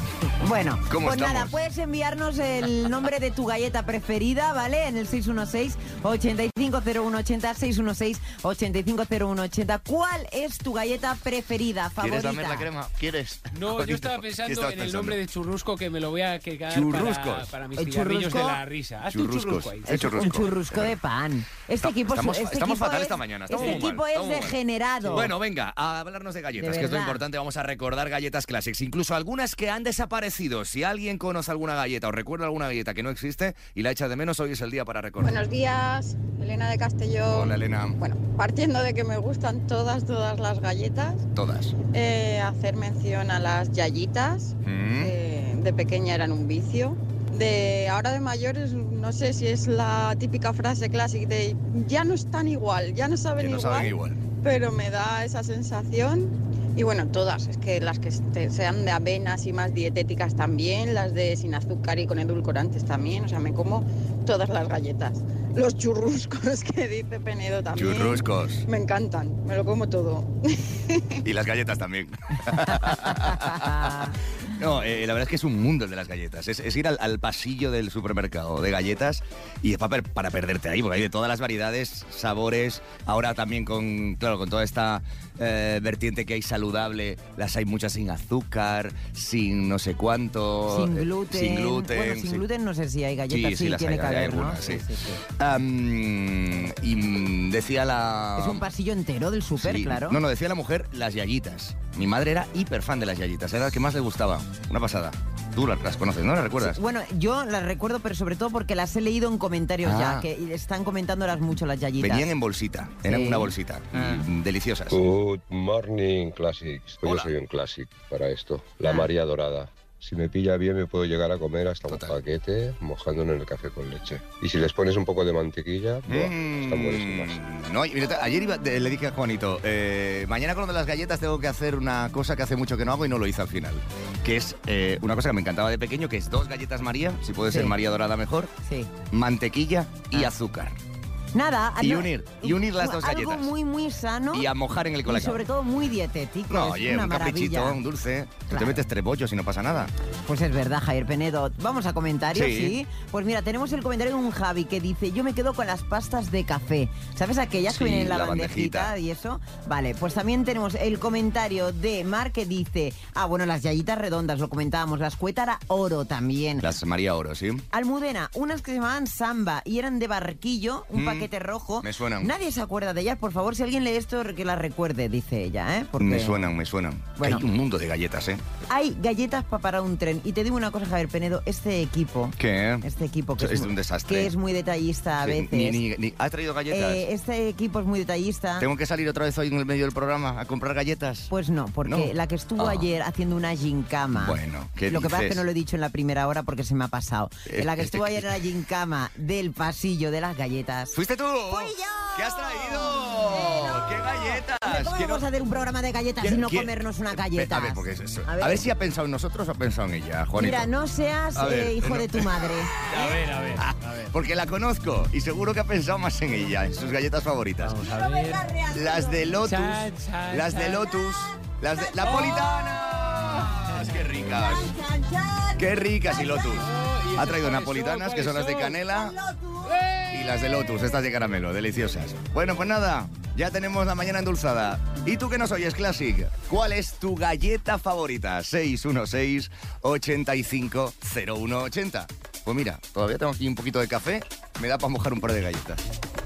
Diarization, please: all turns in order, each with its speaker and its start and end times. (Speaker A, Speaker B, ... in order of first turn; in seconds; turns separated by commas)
Speaker A: 0.4-12.7, Speaker B: 0.9-1.5, Speaker B: 12.0-15.2, Speaker C: 13.5-20.4, Speaker B: 16.7-17.6, Speaker A: 17.8-18.6, Speaker B: 19.1-21.0, Speaker A: 19.9-25.3, Speaker B: 21.8-24.6, Speaker C: 23.6-23.8, Speaker C: 25.0-25.3, Speaker B: 25.1-35.4, Speaker A: 26.6-27.2, Speaker D: 35.2-41.3, Speaker B: 37.3-38.0, Speaker B: 41.3-41.8, Speaker D: 41.9-71.2, Speaker B: 44.6-45.1, Speaker B: 53.4-54.2, Speaker B: 67.8-68.7, Speaker B: 71.2-92.5, Speaker A: 73.4-74.1, Speaker A: 90.7-95.2, Speaker B: 93.3-98.7, Speaker A: 98.4-100.2, Speaker B: 99.6-106.8, Speaker A: 106.6-112.3, Speaker B: 109.8-110.3, Speaker B: 112.0-115.1, Speaker A: 113.0-113.5, Speaker E: 114.9-127.4, Speaker B: 117.0-117.3, Speaker B: 121.9-122.2, Speaker B: 126.1-138.5, Speaker A: 137.5-137.8, Speaker A: 138.7-138.9, Speaker B: 139.1-140.8, Speaker A: 141.3-144.5, Speaker B: 141.8-143.5, Speaker B: 144.3-145.4, Speaker A: 145.1-147.8, Speaker B: 146.5-149.9, Speaker A: 148.5-148.8, Speaker A: 150.3-166.7, Speaker B: 152.3-152.8, Speaker B: 157.7-158.9, Speaker B: 166.6-167.7, Speaker A: 167.7-176.4, Speaker B: 170.9-171.3, Speaker B: 171.8-172.3, Speaker B: 176.0-178.4, Speaker A: 177.2-177.4, Speaker A: 178.7-185.8, Speaker B: 182.4-182.9, Speaker B: 183.4-184.3, Speaker B: 185.2-187.1, Speaker A: 186.7-188.7, Speaker B: 188.6-191.3, Speaker A: 191.3-201.0, Speaker B: 191.8-192.9, Speaker B: 194.2-195.4, Speaker B: 197.5-198.3, Speaker B: 200.9-205.3, Speaker A: 201.5-208.7, Speaker B: 206.2-210.7, Speaker A: 210.4-213.2, Speaker B: 211.4-217.8, Speaker C: 213.0-213.7, Speaker C: 217.6-218.6, Speaker A: 217.9-219.4, Speaker B: 218.7-224.8, Speaker C: 219.4-220.9, Speaker A: 221.0-226.7, Speaker B: 225.6-229.2, Speaker C: 226.5-228.8, Speaker A: 228.9-230.7, Speaker C: 229.7-230.1, Speaker B: 230.1-245.8